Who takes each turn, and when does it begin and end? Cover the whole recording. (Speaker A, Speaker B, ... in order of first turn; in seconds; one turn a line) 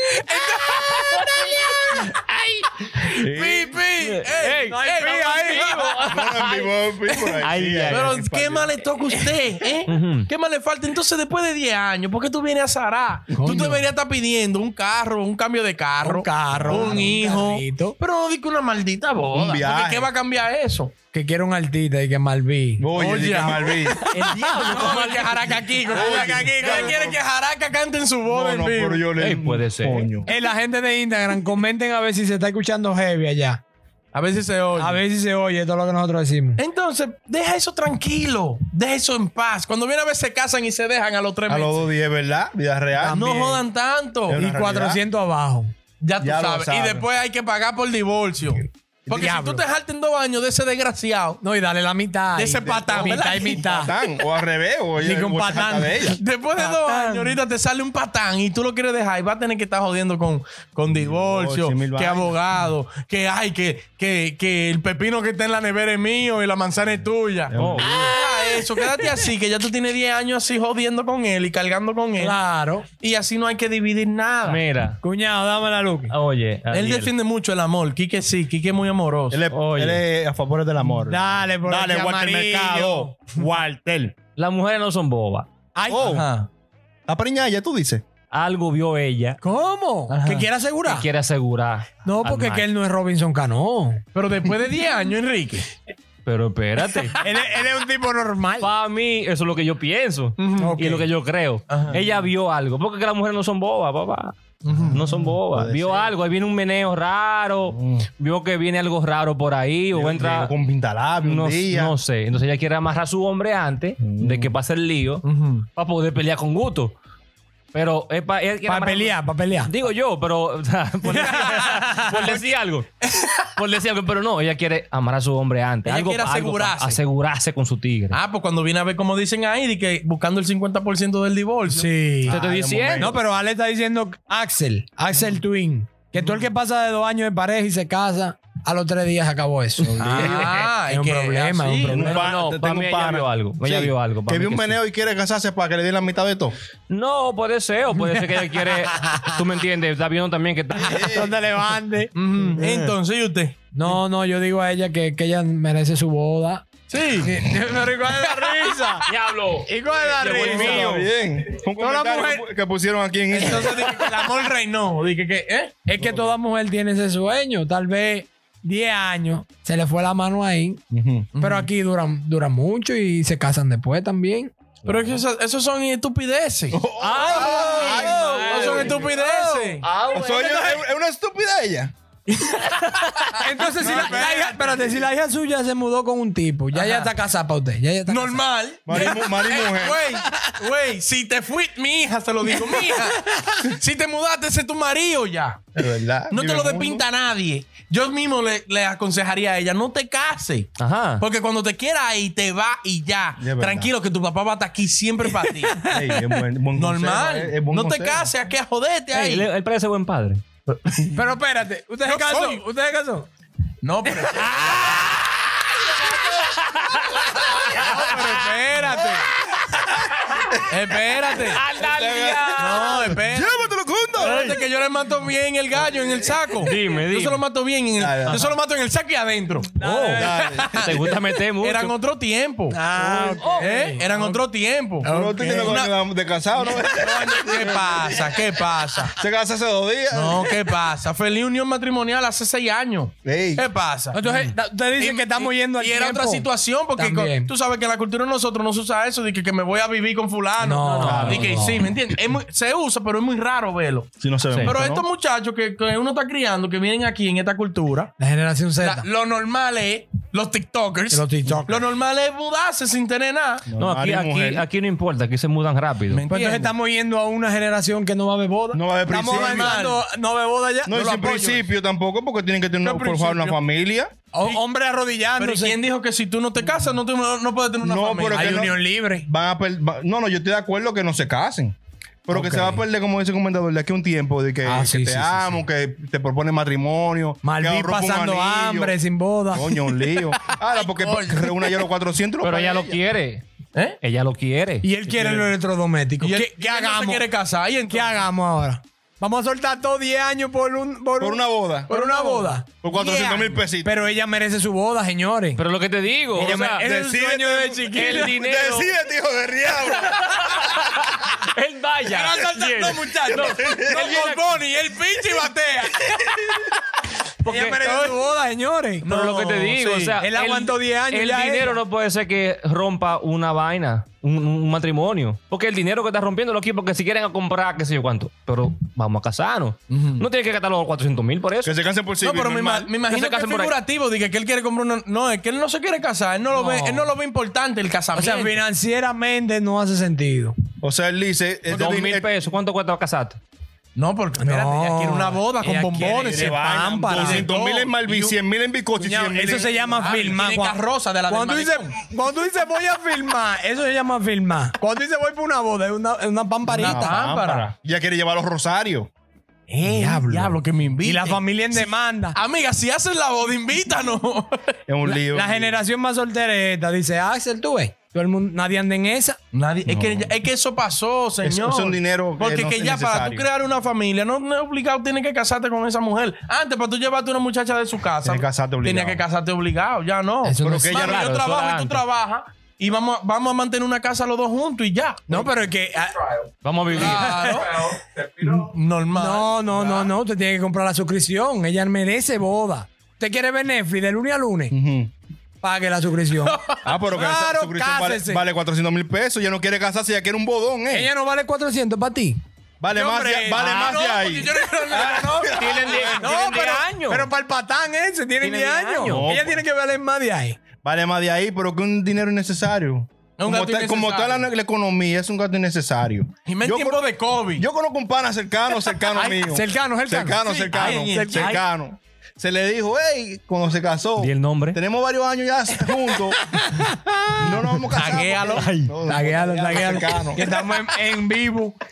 Speaker A: 0.1-2.1
Speaker B: 1.0-2.1
Speaker C: 1.2-2.9
Speaker D: 3.1-3.8
Speaker A: 3.1-6.0
Speaker C: 4.0-4.8
Speaker B: 4.6-5.9
Speaker C: 5.3-6.7
Speaker D: 6.0-8.7
Speaker A: 7.1-20.9
Speaker C: 7.4-8.2
Speaker C: 9.9-10.3
Speaker D: 13.3-13.7
Speaker B: 13.3-13.9
Speaker B: 16.0-17.9
Speaker D: 16.5-17.1
Speaker D: 19.3-20.1
Speaker B: 21.1-22.9
Speaker D: 22.8-24.0
Speaker A: 22.9-29.1
Speaker C: 24.1-25.6
Speaker B: 24.1-25.1
Speaker D: 25.8-27.2
Speaker B: 25.9-26.8
Speaker D: 28.3-30.3
Speaker C: 29.2-30.1
Speaker B: 30.2-33.6
Speaker A: 34.1-35.0
Speaker B: 34.8-36.6
Speaker A: 36.6-41.9
Speaker D: 41.5-43.2
Speaker B: 43.0-43.6
Speaker A: 43.1-44.4
Speaker D: 44.3-45.0
Speaker B: 44.3-45.7
Speaker A: 46.0-51.4
Speaker D: 46.2-47.0
Speaker B: 49.1-49.6
Speaker B: 51.4-53.9
Speaker A: 52.4-54.1
Speaker D: 52.5-56.2
Speaker B: 55.0-57.4
Speaker A: 56.1-72.4
Speaker D: 61.0-62.4
Speaker D: 67.5-68.2
Speaker C: 67.5-68.2
Speaker B: 72.2-72.8
Speaker A: 73.0-74.6
Speaker C: 74.5-75.0
Speaker B: 75.0-76.1
Speaker C: 76.1-77.1
Speaker A: 76.7-79.4
Speaker D: 79.3-84.2
Speaker C: 79.5-80.0
Speaker B: 81.0-83.1
Speaker C: 84.3-85.5
Speaker B: 85.7-86.2
Speaker D: 85.9-86.3
Speaker A: 86.0-86.5
Speaker D: 87.1-88.0
Speaker C: 88.3-89.4
Speaker B: 89.4-91.1
Speaker A: 90.1-90.5
Speaker C: 90.8-92.7
Speaker B: 92.0-94.0
Speaker A: 94.1-95.7
Speaker C: 96.2-97.2
Speaker B: 97.2-98.7
Speaker C: 98.6-104.4
Speaker A: 100.4-100.8
Speaker B: 100.5-101.1
Speaker A: 101.7-102.1
Speaker A: 104.6-105.0
Speaker D: 104.7-106.1
Speaker C: 104.9-110.5
Speaker D: 107.7-108.1
Speaker D: 109.9-112.0
Speaker C: 111.2-115.2
Speaker D: 114.0-114.5
Speaker A: 115.2-115.7
Speaker C: 115.8-116.9
Speaker C: 117.7-122.9
Speaker B: 118.7-119.7
Speaker A: 121.1-121.7
Speaker B: 121.2-122.0
Speaker A: 123.0-123.5
Speaker C: 123.5-128.2
Speaker A: 125.8-127.0
Speaker A: 128.1-132.0
Speaker B: 131.7-132.4
Speaker D: 132.2-133.2
Speaker C: 132.3-133.1
Speaker B: 133.0-142.2
Speaker A: 136.2-136.5
Speaker A: 139.9-142.0
Speaker C: 140.2-140.5
Speaker D: 141.9-146.5
Speaker C: 142.0-144.8
Speaker C: 146.9-151.1
Speaker D: 150.8-151.3
Speaker B: 151.0-152.1
Speaker A: 152.2-154.0
Speaker C: 152.6-152.9
Speaker B: 153.7-156.7
Speaker A: 156.9-157.4
Speaker B: 157.2-159.1
Speaker A: 158.2-158.8
Speaker C: 159.1-161.0
Speaker B: 159.7-161.1
Speaker D: 160.2-164.0
Speaker B: 161.8-162.4
Speaker A: 163.3-165.7
Speaker B: 165.8-170.8
Speaker D: 166.0-166.4
Speaker D: 170.9-171.3
Speaker A: 171.3-171.7
Speaker B: 171.4-174.5
Speaker A: 174.8-176.8
Speaker D: 176.7-179.0
Speaker C: 177.0-179.1
Speaker B: 177.2-180.4
Speaker A: 178.4-179.8
Speaker C: 179.8-180.8
Speaker D: 180.1-181.9
Speaker A: 182.3-185.1
Speaker C: 183.0-183.2
Speaker B: 183.3-188.4
Speaker A: 186.7-187.1
Speaker A: 188.1-195.7
Speaker D: 188.8-190.0
Speaker D: 195.8-197.0
Speaker A: 196.3-206.2
Speaker C: 200.8-201.2
Speaker D: 203.4-203.9
Speaker B: 205.6-206.3
Speaker D: 205.9-208.3
Speaker A: 206.7-209.5
Speaker C: 209.1-210.4
Speaker A: 210.7-211.3
Speaker B: 211.2-213.3
Speaker A: 212.0-212.6
Speaker A: 213.8-214.7
Speaker B: 214.3-215.1
Speaker C: 216.0-220.6
Speaker A: 217.7-219.3
Speaker A: 220.7-221.6
Speaker C: 221.4-223.1
Speaker D: 221.8-224.4
Speaker A: 222.6-235.1
Speaker B: 222.6-223.2
Speaker C: 224.2-224.6
Speaker D: 225.8-226.4
Speaker C: 226.6-227.4
Speaker D: 228.0-228.6
Speaker B: 229.8-230.4
Speaker C: 229.8-230.3
Speaker D: 230.2-231.0
Speaker C: 230.8-231.9
Speaker B: 232.7-234.4
Speaker C: 233.4-233.8
Speaker B: 235.0-235.8
Speaker D: 235.0-238.3
Speaker A: 235.6-235.9
Speaker A: 236.6-239.1
Speaker D: 239.2-240.6
Speaker A: 240.1-254.1
Speaker D: 243.2-243.7
Speaker B: 244.1-247.5
Speaker B: 250.6-251.9
Speaker C: 251.0-251.7
Speaker D: 251.1-251.6
Speaker D: 254.2-255.1
Speaker A: 254.6-258.1
Speaker B: 258.2-259.1
Speaker A: 258.8-263.7
Speaker B: 261.1-261.9
Speaker D: 263.7-264.6
Speaker C: 263.8-266.2
Speaker A: 266.1-266.7
Speaker B: 266.3-270.9
Speaker D: 268.7-269.8
Speaker A: 269.2-270.0
Speaker D: 270.9-274.1
Speaker A: 270.9-271.6
Speaker A: 272.8-273.6
Speaker B: 274.3-275.8
Speaker A: 275.4-278.7
Speaker D: 277.8-281.8
Speaker B: 278.3-279.3
Speaker D: 282.3-289.0
Speaker B: 282.3-282.8
Speaker B: 284.6-285.6
Speaker B: 287.4-290.4
Speaker D: 289.5-293.0
Speaker A: 290.7-291.8
Speaker C: 292.4-293.4
Speaker C: 294.0-294.9
Speaker B: 294.8-297.2
Speaker D: 295.1-295.5
Speaker A: 296.2-298.2
Speaker B: 297.9-302.6
Speaker D: 301.2-301.9
Speaker A: 301.9-303.6
Speaker D: 302.8-304.0
Speaker B: 303.8-305.6
Speaker C: 305.6-306.8
Speaker B: 306.4-308.4
Speaker D: 306.4-310.2
Speaker C: 307.9-308.9
Speaker C: 310.0-314.5
Speaker A: 312.1-316.8
Speaker D: 313.3-314.1
Speaker C: 317.4-317.8
Speaker B: 317.5-319.1
Speaker A: 317.8-318.2
Speaker A: 319.0-320.2
Speaker C: 319.1-331.7
Speaker B: 320.2-321.8
Speaker A: 329.9-330.2
Speaker D: 331.6-332.9
Speaker A: 332.2-338.6
Speaker C: 333.1-333.7
Speaker B: 336.5-337.1
Speaker B: 338.1-340.6
Speaker D: 340.8-342.3
Speaker C: 341.7-343.4
Speaker A: 344.0-348.4
Speaker B: 344.4-347.5
Speaker D: 346.2-349.7
Speaker B: 349.0-357.2
Speaker A: 349.5-351.9
Speaker A: 356.7-357.7
Speaker D: 356.8-359.1
Speaker A: 359.7-364.6
Speaker B: 359.9-362.4
Speaker D: 364.9-365.8
Speaker B: 365.0-369.4
Speaker A: 369.5-385.5
Speaker D: 369.9-370.3
Speaker D: 371.4-373.5
Speaker D: 378.2-379.2
Speaker B: 380.4-381.1
Speaker D: 380.6-381.2
Speaker C: 380.9-382.0
Speaker B: 385.3-388.0
Speaker C: 386.6-387.5
Speaker A: 386.9-390.1
Speaker B: 389.1-394.7
Speaker D: 394.7-395.1
Speaker B: 395.6-396.6
Speaker A: 396.4-396.8
Speaker D: 396.9-401.1
Speaker B: 397.1-398.4
Speaker B: 400.9-402.4
Speaker D: 402.8-406.3
Speaker B: 402.9-404.4
Speaker A: 403.7-406.4
Speaker C: 405.5-407.3
Speaker B: 406.1-410.6
Speaker C: 408.4-409.3
Speaker D: 409.1-409.6
Speaker D: 410.8-417.0
Speaker A: 413.4-414.5
Speaker A: 416.5-417.6
Speaker D: 417.6-426.4
Speaker B: 419.1-421.6
Speaker A: 420.4-421.6
Speaker C: 424.2-424.8
Speaker B: 426.5-427.7
Speaker D: 427.4-430.4
Speaker A: 427.9-428.7
Speaker C: 428.5-428.9
Speaker B: 429.1-431.8